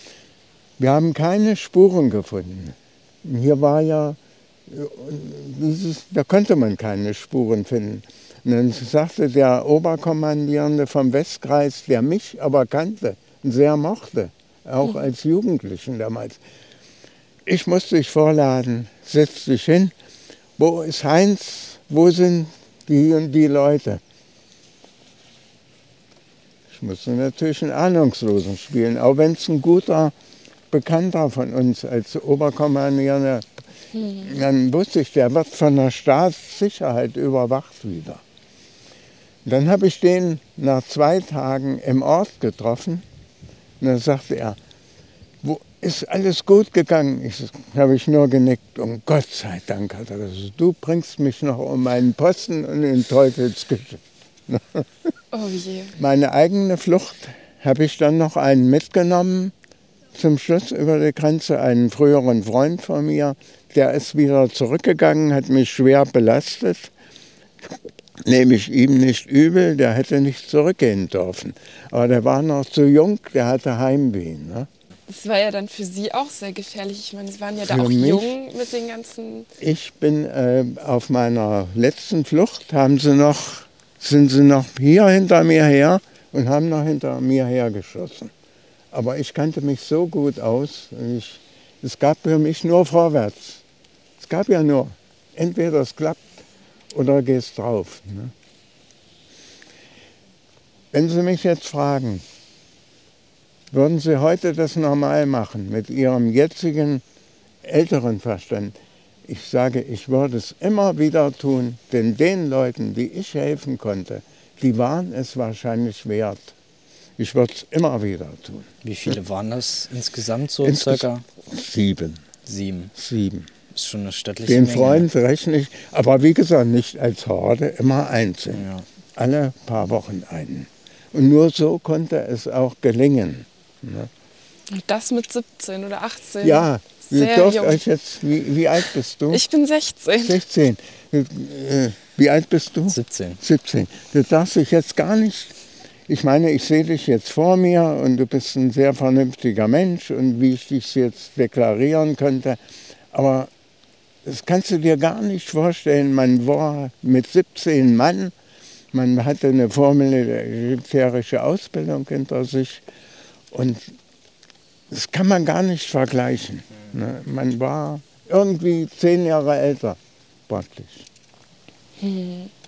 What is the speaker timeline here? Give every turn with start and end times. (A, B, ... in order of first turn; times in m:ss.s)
0:00.8-0:16.4 A
0:17.5-0:19.9 A
0:20.6-0:24.0 A
0:26.7-0:30.2 A
0:30.7-0:33.6 A
0:33.9-0:34.3 B
0:34.2-0:38.2 A
0:39.4-0:43.0 A
0:43.8-0:44.6 A
0:45.4-0:55.1 A
0:55.3-0:56.0 B
0:56.0-0:59.5 A
1:00.2-1:06.9 A
1:08.2-1:14.7 A
1:15.1-1:19.5 B
1:17.7-1:18.4 A
1:19.6-1:28.3 A
1:28.9-1:33.6 A
1:34.2-1:38.3 A
1:40.9-1:42.2 A
1:43.7-1:47.0 A
1:47.6-1:56.5 A
1:57.2-1:59.1 A
1:58.8-2:01.2 C
2:00.6-2:02.2 A
2:02.5-2:02.9 C
2:03.0-2:03.5 A
2:03.7-2:05.1 C
2:04.5-2:08.6 A
2:08.5-2:08.8 C
2:09.2-2:14.1 A
2:14.7-2:17.8 B
2:16.4-2:19.4 A
2:19.3-2:20.4 B
2:20.2-2:25.6 A
2:22.9-2:23.4 C
2:26.1-2:32.6 A
2:33.1-2:33.5 A
2:34.2-2:38.3 A
2:38.9-2:42.8 A
2:43.5-2:44.0 A
2:44.9-2:51.1 A
2:52.0-2:52.5 B